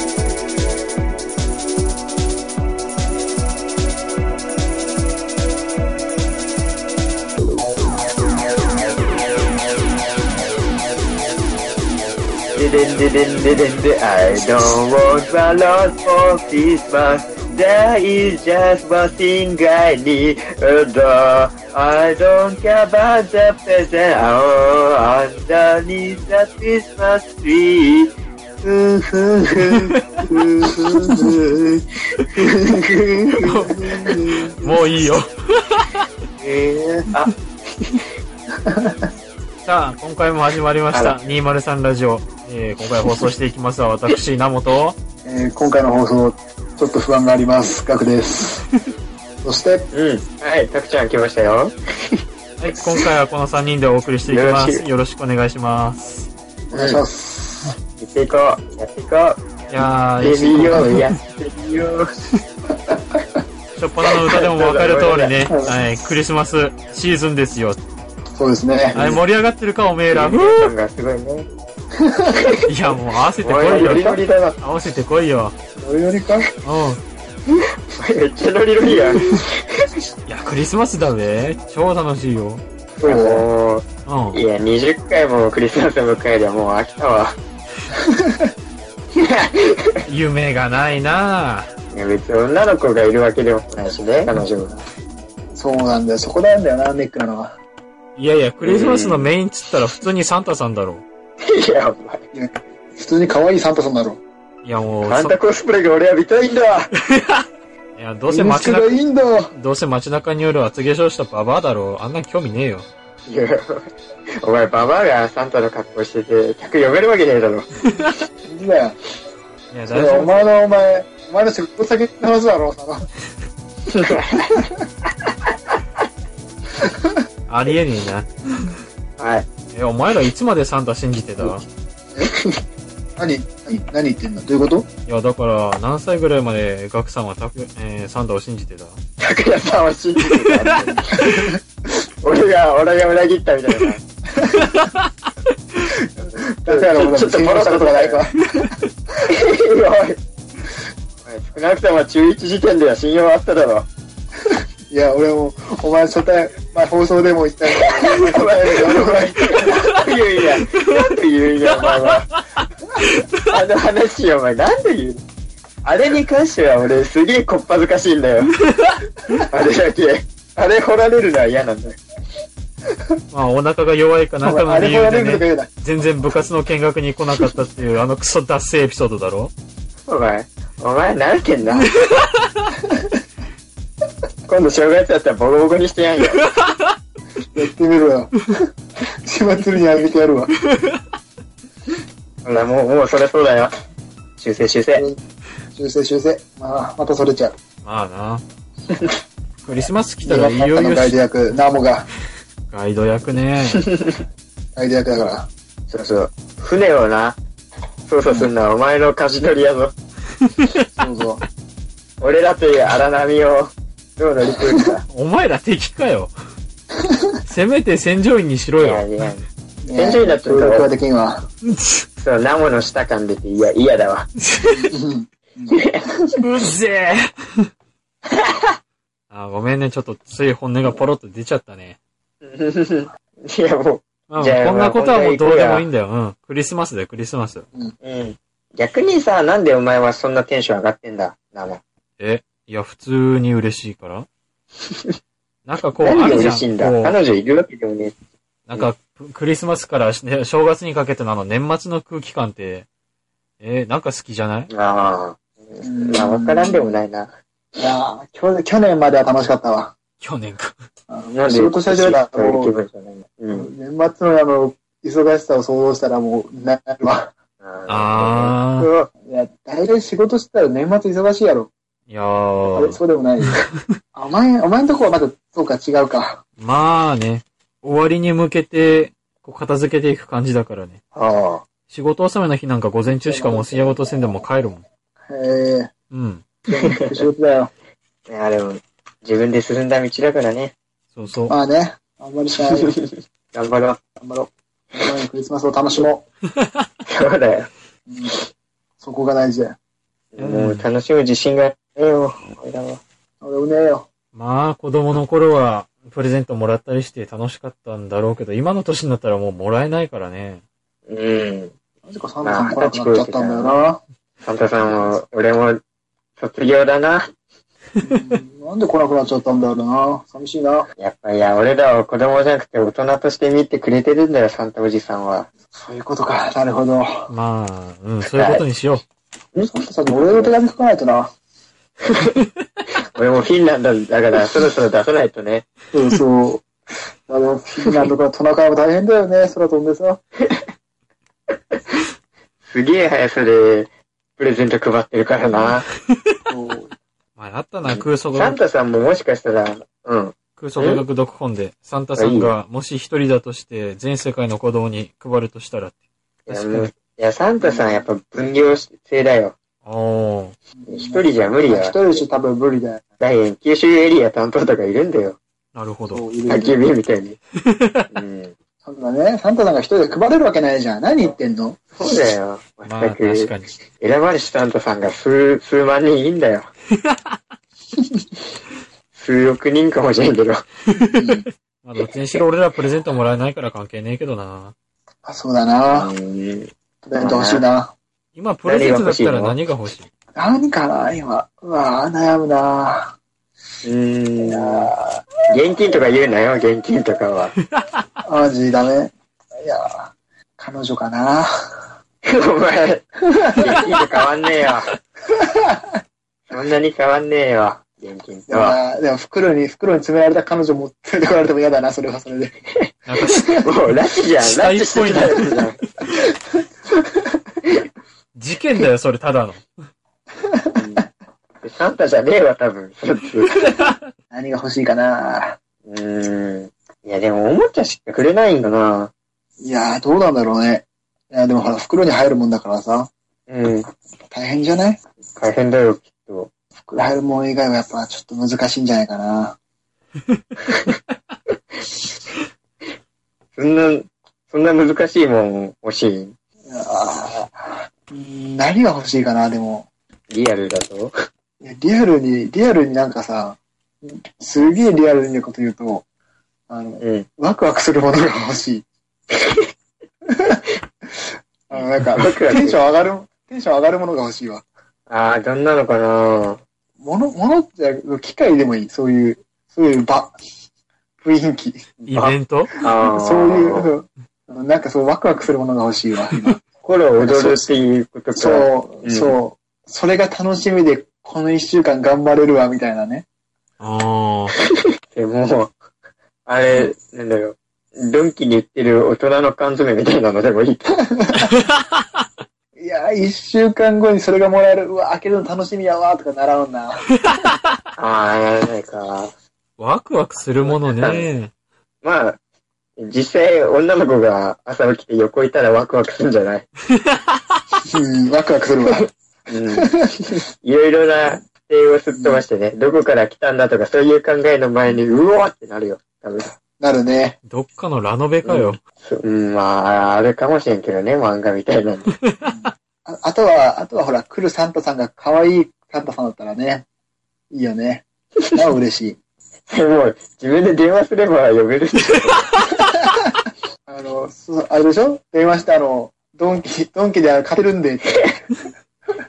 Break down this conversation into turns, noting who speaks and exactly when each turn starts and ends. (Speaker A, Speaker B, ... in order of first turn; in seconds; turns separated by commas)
Speaker A: 12.6-28.1, Speaker A: 28.6-34.2, Speaker B: 30.6-31.2, Speaker B: 33.4-34.7, Speaker C: 33.4-33.8, Speaker C: 34.6-36.1, Speaker A: 36.4-38.0, Speaker B: 38.7-39.0, Speaker C: 39.6-45.0, Speaker A: 40.9-41.2, Speaker B: 45.2-48.7, Speaker B: 49.4-49.9, Speaker A: 49.9-52.2, Speaker C: 52.6-56.3, Speaker A: 54.3-54.9, Speaker B: 56.7-57.7, Speaker A: 56.7-57.0, Speaker A: 58.0-59.4, Speaker C: 59.7-61.1, Speaker A: 60.2-62.1, Speaker C: 63.8-67.8, Speaker A: 64.4-65.4, Speaker B: 65.5-65.8, Speaker B: 68.4-69.2, Speaker C: 68.9-70.7, Speaker A: 70.1-71.5, Speaker B: 72.0-72.4, Speaker C: 72.7-75.5, Speaker A: 73.4-74.6, Speaker B: 75.8-76.5, Speaker C: 76.6-77.0, Speaker A: 77.9-79.5, Speaker B: 78.9-79.3, Speaker C: 80.3-82.6, Speaker B: 83.0-83.5, Speaker A: 83.0-87.4, Speaker C: 84.1-84.4, Speaker B: 88.1-88.5, Speaker A: 89.2-90.0, Speaker C: 90.1-91.7, Speaker A: 91.9-94.8, Speaker B: 95.5-97.6, Speaker C: 98.2-101.0, Speaker A: 98.6-99.3, Speaker A: 101.4-102.2, Speaker B: 102.3-104.2, Speaker C: 104.6-105.4, Speaker A: 105.0-106.9, Speaker C: 107.1-107.5, Speaker C: 108.0-112.9, Speaker B: 108.3-109.5, Speaker A: 113.3-113.9, Speaker A: 114.4-117.7, Speaker B: 118.5-119.0, Speaker C: 119.7-120.5, Speaker B: 119.9-123.1, Speaker A: 123.9-124.6, Speaker C: 127.5-128.8, Speaker A: 129.2-129.5, Speaker C: 129.7-131.6, Speaker B: 133.2-134.9, Speaker C: 135.1-139.0, Speaker A: 139.2-141.2, Speaker C: 140.2-141.6, Speaker B: 141.1-141.6, Speaker A: 142.2-144.0, Speaker B: 144.4-144.8, Speaker C: 144.5-145.1, Speaker B: 146.2-148.7, Speaker A: 146.7-148.2, Speaker C: 148.5-148.9, Speaker A: 149.3-150.2, Speaker A: 151.2-153.9, Speaker B: 154.9-160.0, Speaker A: 157.7-162.3, Speaker C: 160.6-161.1, Speaker C: 161.7-163.3, Speaker A: 163.4-165.2, Speaker A: 165.8-168.5, Speaker C: 168.6-169.1, Speaker A: 169.4-172.0, Speaker C: 173.3-179.5, Speaker B: 174.4-175.7, Speaker A: 180.1-181.9, Speaker C: 181.8-182.7, Speaker A: 184.5-186.4, Speaker C: 186.5-186.9, Speaker B: 187.5-188.6, Speaker B: 189.2-190.6, Speaker C: 190.7-191.0, Speaker A: 192.4-193.7, Speaker A: 194.4-195.1, Speaker B: 194.9-195.2, Speaker B: 195.7-197.5, Speaker C: 197.8-198.4, Speaker A: 198.9-199.2, Speaker C: 199.7-201.2, Speaker B: 200.2-202.1, Speaker C: 202.7-203.9, Speaker A: 203.8-204.2, Speaker B: 204.8-205.5, Speaker A: 205.9-207.4, Speaker A: 208.1-209.9, Speaker C: 210.5-210.8, Speaker B: 211.0-211.4, Speaker A: 212.2-215.1, Speaker C: 215.1-216.3, Speaker B: 217.1-217.4, Speaker C: 217.5-219.1, Speaker A: 218.8-220.9, Speaker B: 219.8-221.5, Speaker C: 221.7-222.0, Speaker A: 222.2-224.3, Speaker C: 224.5-224.9, Speaker B: 224.8-226.1, Speaker A: 225.7-226.1, Speaker C: 226.4-227.7, Speaker A: 228.3-228.7, Speaker C: 229.3-232.0, Speaker A: 232.4-235.9, Speaker C: 234.3-237.7, Speaker A: 238.0-241.8, Speaker C: 242.2-244.3, Speaker C: 245.7-247.2, Speaker A: 246.0-248.2, Speaker C: 248.7-252.9, Speaker C: 253.6-254.7, Speaker A: 254.7-257.3, Speaker B: 255.8-257.0, Speaker B: 257.8-259.9, Speaker C: 260.2-260.8, Speaker B: 261.1-262.7, Speaker A: 261.4-263.7, Speaker B: 263.5-267.3, Speaker A: 267.6-269.1, Speaker C: 267.9-268.9, Speaker B: 269.3-271.7, Speaker C: 272.1-273.7, Speaker B: 272.7-273.5, Speaker B: 274.1-276.4, Speaker C: 276.6-281.0, Speaker A: 281.1-281.6, Speaker C: 281.9-284.8, Speaker B: 283.1-284.4, Speaker B: 285.3-285.9, Speaker C: 286.1-286.4, Speaker B: 286.7-287.7, Speaker A: 286.7-287.2, Speaker A: 288.3-290.7, Speaker C: 291.1-291.6, Speaker B: 291.5-293.0, Speaker A: 292.7-294.0, Speaker B: 294.2-296.2, Speaker A: 297.1-297.7, Speaker B: 298.1-298.4, Speaker B: 299.0-299.8, Speaker A: 300.3-303.0, Speaker C: 300.4-300.9, Speaker B: 303.4-304.1, Speaker C: 304.3-310.6, Speaker A: 311.1-311.7, Speaker B: 312.1-314.0, Speaker A: 312.4-313.8, Speaker A: 314.4-315.8, Speaker A: 316.4-317.3, Speaker B: 318.0-320.9, Speaker A: 321.0-325.5, Speaker B: 325.8-327.3, Speaker C: 327.3-329.0, Speaker A: 328.3-328.7, Speaker A: 329.5-330.6, Speaker B: 329.6-331.3, Speaker A: 333.1-335.7, Speaker B: 335.9-336.7, Speaker B: 337.3-340.2, Speaker A: 342.6-345.9, Speaker B: 346.5-346.9, Speaker C: 347.4-348.6, Speaker A: 347.9-351.0, Speaker C: 350.6-355.9, Speaker A: 352.2-352.6, Speaker A: 356.5-359.6, Speaker C: 356.5-356.9, Speaker B: 357.6-358.1, Speaker C: 359.9-360.5, Speaker B: 360.8-363.0, Speaker A: 360.9-362.0, Speaker A: 363.2-365.4, Speaker C: 365.8-366.2, Speaker B: 366.1-366.8, Speaker A: 366.5-367.4, Speaker C: 367.7-368.1, Speaker A: 368.1-368.6, Speaker B: 368.8-371.8, Speaker A: 372.0-376.7, Speaker C: 372.9-373.8, Speaker C: 377.0-377.4, Speaker A: 379.1-380.6, Speaker C: 380.9-384.7, Speaker B: 381.1-381.5, Speaker B: 385.2-386.1, Speaker A: 385.9-387.7, Speaker B: 387.0-387.9, Speaker C: 388.4-390.1, Speaker A: 388.6-389.6, Speaker B: 390.4-393.1, Speaker A: 393.8-394.9, Speaker B: 394.4-395.2, Speaker A: 395.5-397.5, Speaker C: 397.7-398.0, Speaker B: 398.2-401.5, Speaker A: 402.3-404.9, Speaker B: 405.4-405.9, Speaker A: 406.5-408.8, Speaker B: 408.5-412.6, Speaker C: 413.1-415.7, Speaker B: 413.3-413.6, Speaker A: 413.6-415.8, Speaker C: 418.4-419.7, Speaker B: 420.5-421.1, Speaker A: 420.8-421.1, Speaker A: 421.6-423.7, Speaker B: 424.3-425.6, Speaker A: 425.9-429.1, Speaker B: 429.6-433.1, Speaker A: 433.5-433.9, Speaker B: 434.3-435.0, Speaker A: 435.4-436.5, Speaker B: 436.8-439.6, Speaker C: 440.3-441.1, Speaker A: 443.6-446.4, Speaker B: 446.7-449.9, Speaker A: 450.3-451.1, Speaker B: 451.6-456.0, Speaker B: 456.7-458.9, Speaker A: 457.0-457.3, Speaker A: 459.4-459.7, Speaker B: 460.3-464.6, Speaker A: 461.7-462.8, Speaker A: 465.1-466.6, Speaker B: 467.0-470.4, Speaker B: 471.2-471.9, Speaker A: 472.0-473.9, Speaker C: 472.1-472.7, Speaker B: 473.0-476.6, Speaker A: 476.8-479.4, Speaker B: 477.2-477.7, Speaker B: 478.4-483.2, Speaker C: 483.8-484.5, Speaker A: 484.7-485.8, Speaker A: 486.5-491.0, Speaker B: 491.1-491.5, Speaker C: 491.4-492.1, Speaker B: 492.8-497.6, Speaker A: 498.0-499.3, Speaker C: 499.8-501.5, Speaker A: 500.6-501.3, Speaker A: 502.0-502.4, Speaker A: 503.0-506.7, Speaker C: 507.0-507.6, Speaker B: 507.9-509.1, Speaker A: 508.9-516.5, Speaker B: 509.7-510.1, Speaker B: 512.2-512.4, Speaker B: 516.8-517.4, Speaker C: 517.5-518.8, Speaker A: 518.4-522.1, Speaker C: 522.2-522.5, Speaker B: 522.5-526.8, Speaker B: 527.5-529.2, Speaker A: 529.7-532.5, Speaker B: 533.9-538.5